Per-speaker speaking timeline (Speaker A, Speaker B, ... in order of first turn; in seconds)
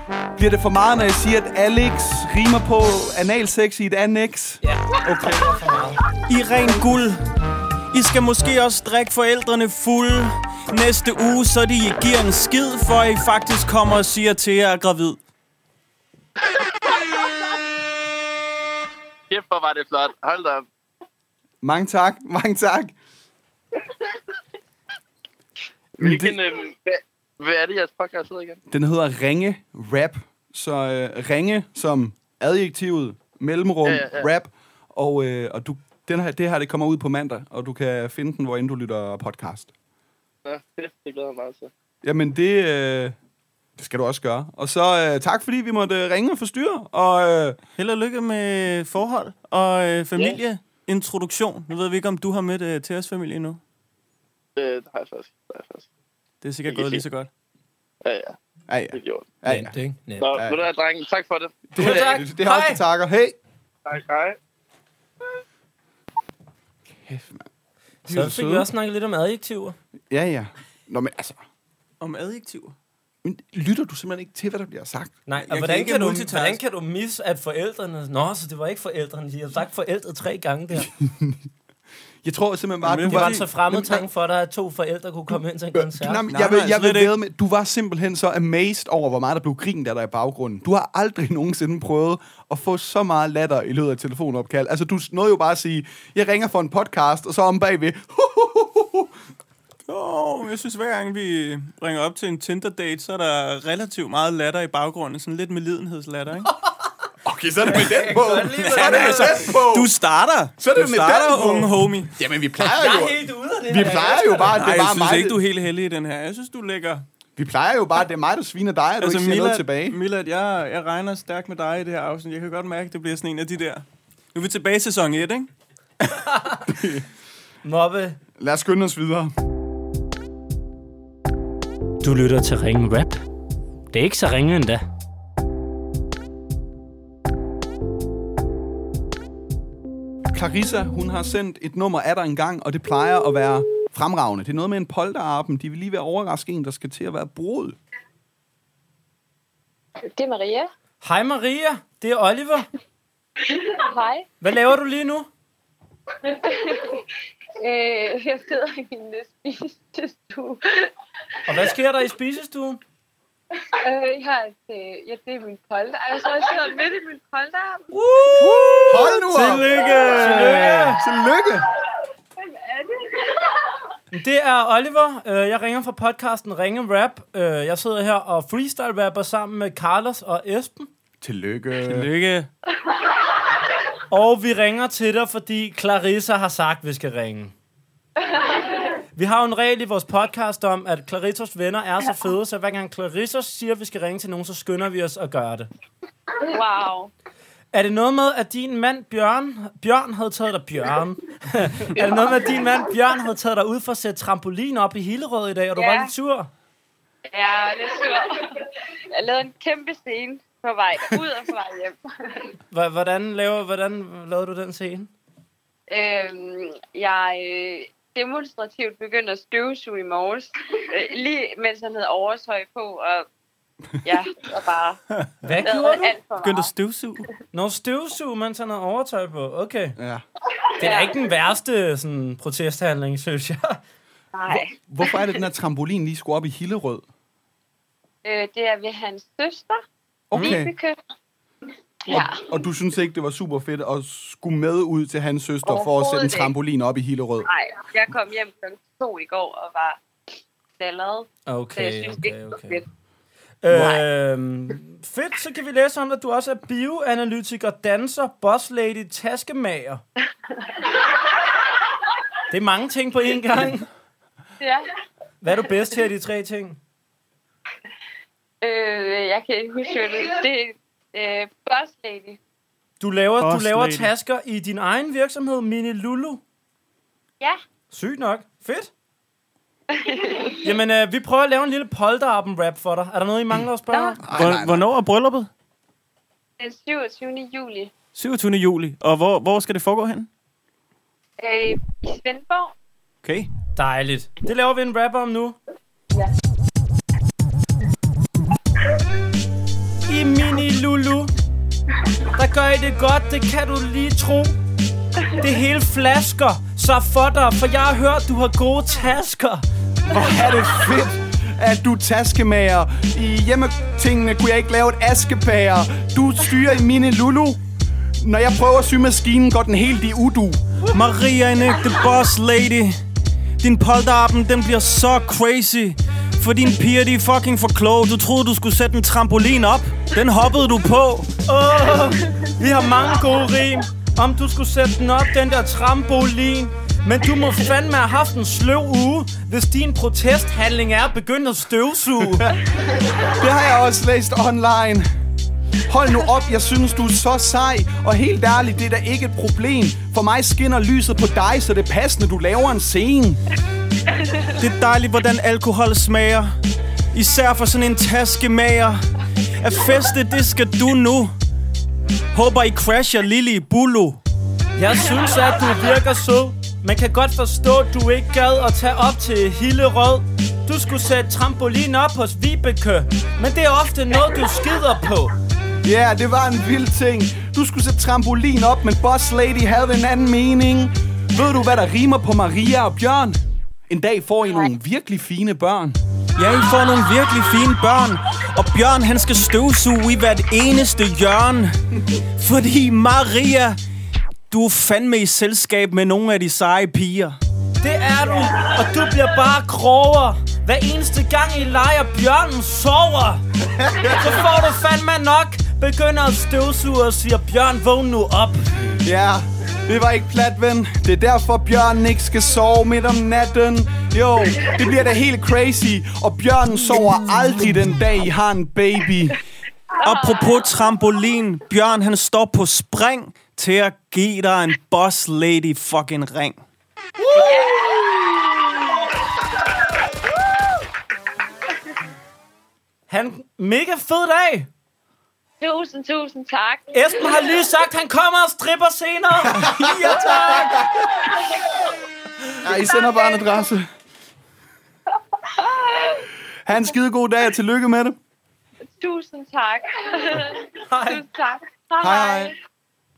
Speaker A: 0.4-5.5, 21.6-22.9, 26.0-26.4, 28.7-39.7, 42.0-43.1, 43.8-47.6, 58.7-59.7, 60.3-60.6, 61.7-63.4, 67.0-67.5, 68.0-68.7, 70.1-71.4, 73.2-75.2, 81.0-81.4, 82.2-84.0, 85.7-99.1, 107.2-109.9, 110.6-115.4, 117.3-120.0, 126.7-127.0, 128.4-129.3, 140.2-147.8, 168.3-171.7, 181.2-182.1, 230.0-230.2, 234.5-237.0, 240.3-240.7, 242.1-247.5, 253.7-254.0, 284.2-284.8, 310.0-317.6, 318.2-320.6, 342.3-345.1, 345.9-353.4, 375.8-386.0, 403.6-404.4, 409.0-419.4, 427.2-428.4, 439.4-441.1, 442.6-443.9, 446.6-448.2, 452.0-452.5
Speaker B: 4.6-6.0, 59.4-60.4, 61.8-62.8, 68.1-69.8, 75.2-80.9, 83.0-86.2, 107.8-109.5, 112.6-114.6, 126.2-126.7, 127.6-128.2, 132.0-133.2, 133.9-134.8, 151.0-152.7, 154.4-155.3, 161.4-162.8, 170.1-171.0, 174.1-180.9, 184.1-187.5, 189.1-195.7, 197.7-206.5, 212.7-215.1, 225.4-226.1, 227.5-230.0, 230.8-233.8, 251.5-252.8, 253.6-260.0, 262.5-263.9, 265.4-266.8, 273.0-276.4, 277.9-278.9, 280.6-284.2, 293.8-295.6, 300.1-301.3, 302.3-304.5, 305.4-309.6, 331.4-342.5, 364.8-375.3, 397.8-403.4, 404.0-408.7, 433.1-434.7, 436.9-440.9, 450.9-451.2
Speaker C: 6.3-7.2, 7.9-15.2, 47.8-53.6, 56.4-57.3, 72.0-72.7, 75.5-76.6, 82.8-83.5, 86.3-87.1, 99.9-106.5, 108.6-112.1, 114.5-117.0, 119.0-125.5, 168.1-170.8, 181.8-182.5, 226.4-227.3, 240.3-240.6, 273.4-274.1, 284.3-285.5, 288.1-290.3, 293.2-293.5, 320.9-323.0, 323.6-331.3, 354.5-356.5, 357.1-359.0, 359.6-361.3, 362.3-364.2, 386.4-391.7, 392.3-393.8, 394.5-397.4, 420.0-426.6
Speaker D: 19.3-20.6, 26.0-28.6, 33.8-34.3, 40.4-41.7, 54.5-55.9, 56.7-57.0, 58.0-58.3, 58.9-59.3, 60.2-62.2, 63.9-64.4
Speaker E: 150.1-150.7, 153.4-154.3, 156.2-157.1, 157.6-160.9, 163.6-167.9, 172.4-173.8, 188.3-188.8, 196.4-197.1, 201.9-202.7, 205.8-206.1, 207.3-212.5, 215.9-223.2, 224.0-225.0, 225.6-226.7, 230.8-231.2, 234.3-235.3, 238.2-239.8, 240.4-241.0, 242.1-242.4, 245.6-246.5, 247.4-250.0, 250.8-252.8, 260.5-261.4, 264.6-264.9, 268.6-272.4, 279.9-280.7, 283.9-284.2, 286.6-287.9, 291.4-292.7, 332.1-332.5, 354.1-354.5, 420.0-420.8, 427.3-429.0, 435.6-437.6, 441.3-441.6, 442.9-443.5, 445.4-446.3, 448.8-452.5